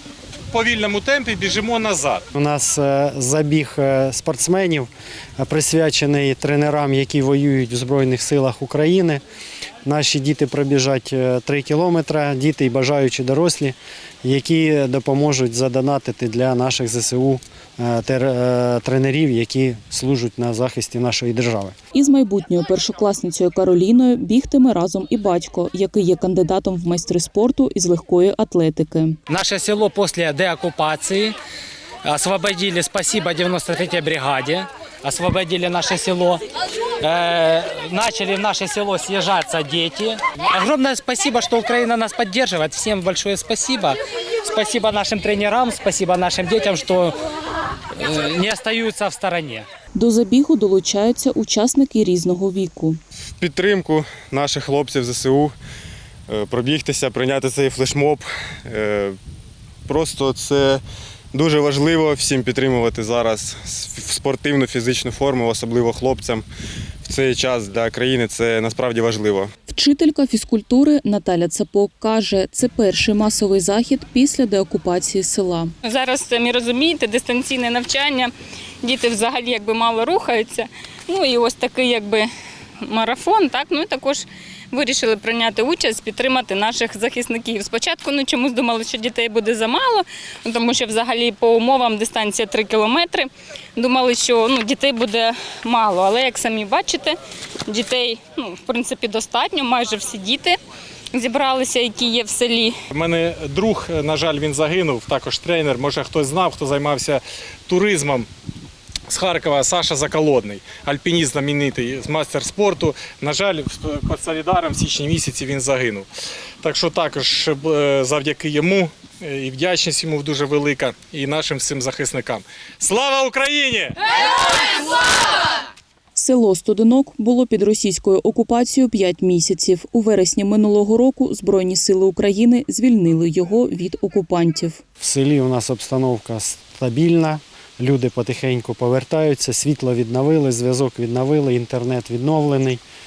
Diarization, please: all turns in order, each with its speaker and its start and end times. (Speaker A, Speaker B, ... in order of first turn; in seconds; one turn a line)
Speaker A: 0.5-2.2
Speaker B: 2.3-9.2
Speaker B: 9.8-21.7
Speaker C: 21.9-29.2
Speaker D: 29.3-31.4
Speaker D: 32.0-36.4
Speaker D: 37.0-47.2
Speaker D: 48.0-49.7
Speaker C: 50.0-53.0
Speaker E: 53.4-55.5
Speaker E: 56.3-59.1
Speaker E: 59.9-60.8
Speaker E: 61.3-66.4
Speaker E: 67.0-69.5
Speaker C: 69.7-75.7
Speaker F: 75.8-78.3
Speaker F: 78.8-82.3
Speaker F: 82.8-100.6
Speaker F: 101.1-102.8
Speaker A: 102.9-108.3
Speaker A: 109.1-116.1
Speaker A: 116.6-124.0
Speaker C: 126.1-134.8
Speaker B: 135.0-142.8